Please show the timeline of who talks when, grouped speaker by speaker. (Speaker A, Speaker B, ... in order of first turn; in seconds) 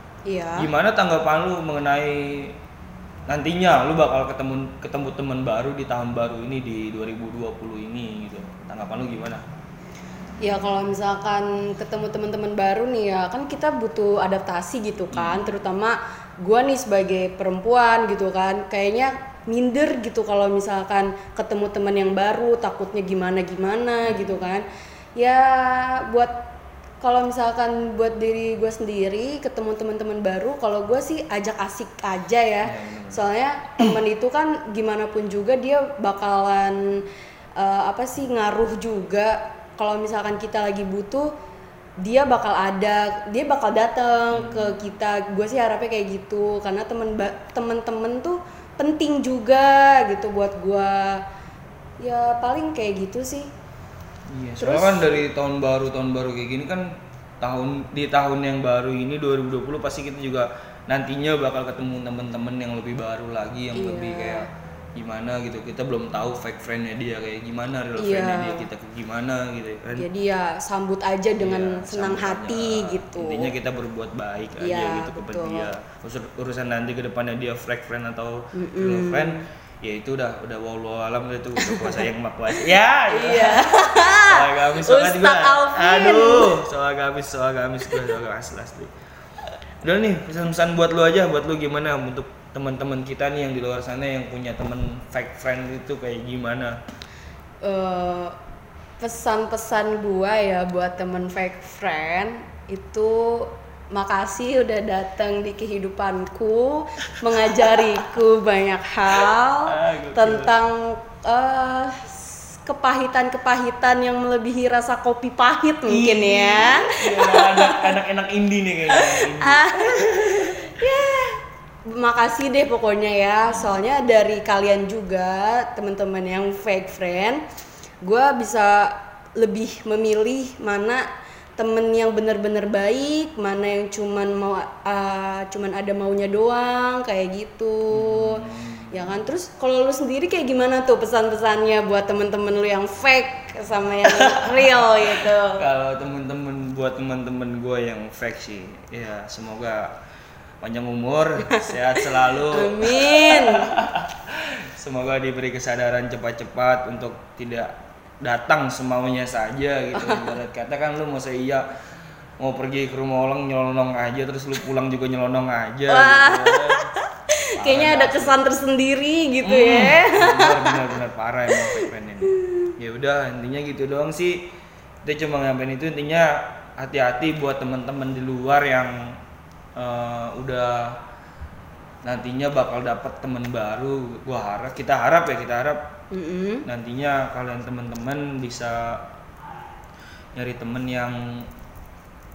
Speaker A: 0.3-0.7, 10.4-24.6, 25.2-26.4, 27.0-36.8, 37.6-41.3, 42.0-51.2, 52.0-53.5, 54.6-55.2, 63.7-64.5, 68.0-68.7, 69.9-73.5, 74.6-75.7, 78.5-79.4, 81.6-82.0, 83.1-86.6, 97.6-98.3, 99.0-117.9, 118.9-127.4, 128.0-131.0, 131.6-145.6, 152.3-153.8, 159.9-160.3, 165.9-171.0, 171.5-172.7, 186.1-186.6
Speaker B: 0.6-2.5, 3.3-9.4, 15.1-15.6, 24.0-24.5, 32.6-33.2, 44.3-44.8, 54.3-70.1, 71.4-88.9, 89.8-96.8, 109.7-110.5, 115.8-120.7, 123.5-123.8, 137.9-139.2, 144.1-149.9, 150.6-161.7, 162.4-166.9, 167.6-168.4, 169.4-174.4, 175.0-179.2, 179.8-181.0, 182.0-185.8, 186.6-189.0, 190.3-191.5